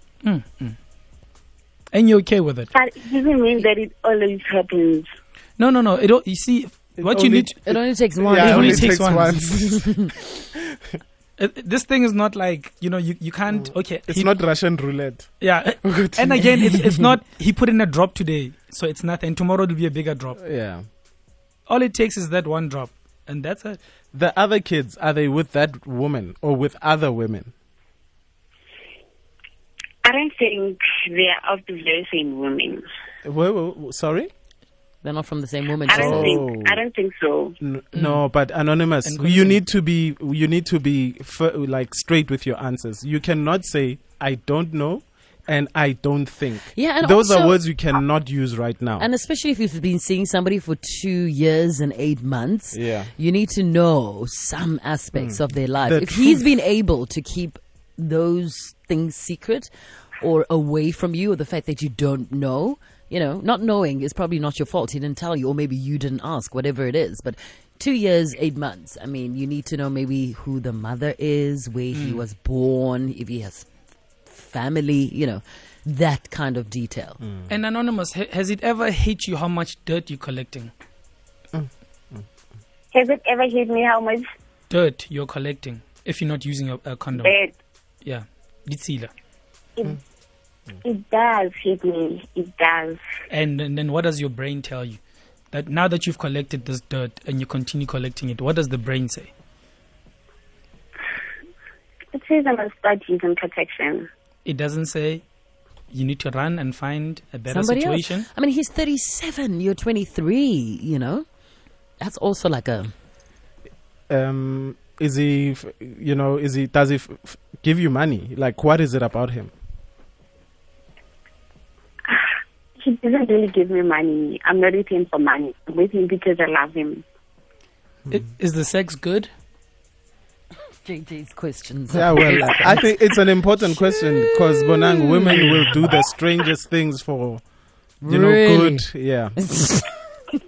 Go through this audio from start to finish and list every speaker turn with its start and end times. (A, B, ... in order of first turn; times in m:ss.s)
0:00.2-0:00.8 A
0:01.9-0:02.7 A
0:02.7-0:05.1 B
0:05.6-0:07.6 A
0:07.0-0:10.6 C
0:07.7-0:10.1 D
0:08.3-0:09.6 A
0:11.4-0:14.3 A
0:13.5-0:15.3 C
0:15.4-0:20.4 A
0:15.8-0:16.5 C
0:20.4-0:20.8 C
0:21.7-0:23.8 A
0:24.1-0:27.5 C
0:30.0-0:32.8 B
0:33.2-0:34.3 C
0:35.0-0:36.4 D
0:35.9-0:37.6 B
0:35.9-0:36.8 C
0:37.6-0:49.1 C
0:37.9-0:38.2 A
0:39.0-0:39.6 A
0:46.7-0:47.6 D
0:49.0-1:13.7 D
0:52.7-0:53.1 C
0:55.2-0:56.4 C
1:11.9-1:12.2 A
1:14.3-1:17.2 D
1:17.2-1:17.5 C
1:17.5-1:20.7 A
1:21.5-1:22.2 C
1:22.9-1:24.2 B
1:24.7-1:27.3 A
1:27.2-1:27.5 B
1:28.0-1:29.1 A
1:30.8-1:33.0 B
1:33.3-1:35.0 A
1:35.5-1:39.3 A
1:42.1-1:44.1 B
1:44.4-1:45.2 A
1:45.9-1:48.3 A
1:47.5-1:51.2 D
1:52.0-1:52.9 D
1:54.1-1:59.5 C
2:02.8-2:07.0 B
2:08.1-2:09.3 A
2:10.8-2:12.9 D
2:11.9-2:17.4 C
2:14.8-2:15.6 D
2:18.0-2:20.0 D
2:18.0-2:19.4 C